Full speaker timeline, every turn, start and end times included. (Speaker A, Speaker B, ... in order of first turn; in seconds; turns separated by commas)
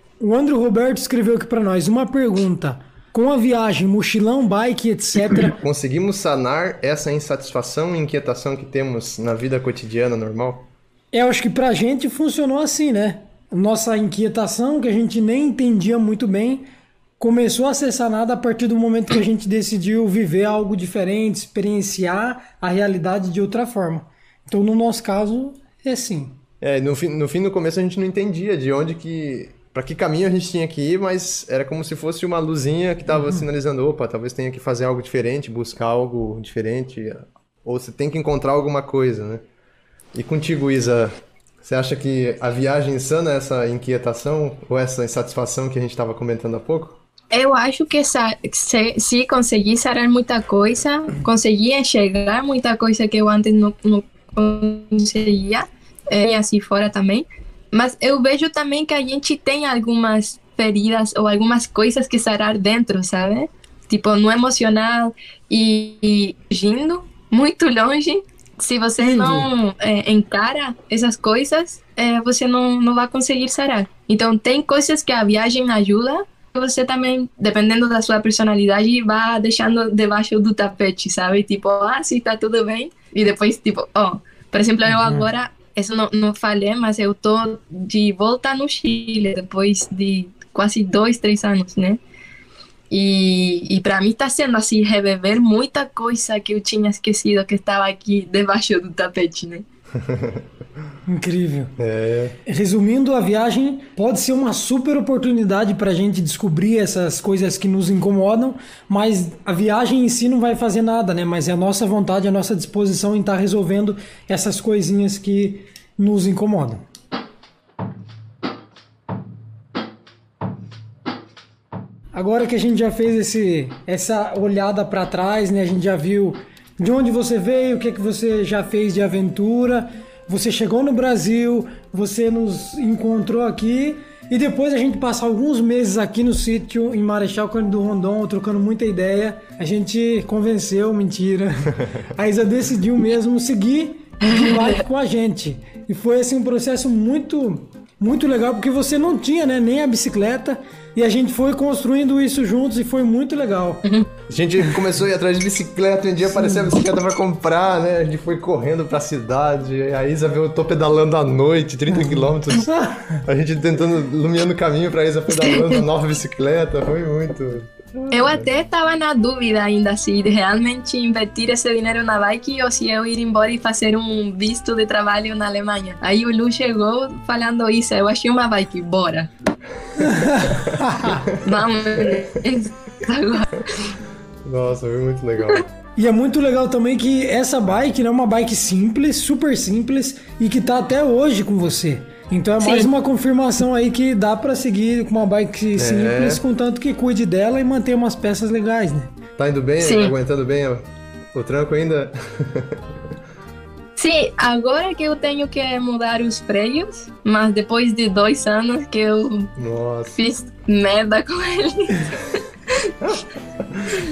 Speaker A: 0.2-5.6, Speaker B: 5.6-10.7, Speaker A: 11.1-16.6, Speaker A: 17.2-26.4, Speaker B: 26.6-39.4, Speaker A: 33.1-33.4, Speaker B: 40.1-47.0, Speaker C: 47.3-92.0, Speaker A: 69.0-69.5, Speaker A: 84.9-85.3, Speaker C: 92.9-99.6, Speaker B: 100.0-100.4, Speaker A: 101.1-101.7, Speaker B: 101.8-102.4, Speaker A: 102.5-116.8, Speaker A: 122.1-153.8, Speaker C: 144.2-144.8, Speaker B: 154.3-162.7, Speaker A: 156.3-156.7, Speaker A: 161.9-163.2, Speaker B: 163.2-168.4, Speaker C: 165.4-165.8, Speaker C: 168.1-179.3, Speaker A: 180.0-181.2, Speaker C: 181.4-183.9, Speaker B: 184.4-185.7, Speaker A: 186.0-199.1, Speaker C: 192.6-192.9, Speaker B: 195.8-196.4, Speaker B: 199.4-200.8, Speaker C: 199.8-200.1, Speaker B: 201.3-202.8, Speaker C: 204.0-209.5, Speaker B: 209.6-210.2, Speaker C: 210.2-212.9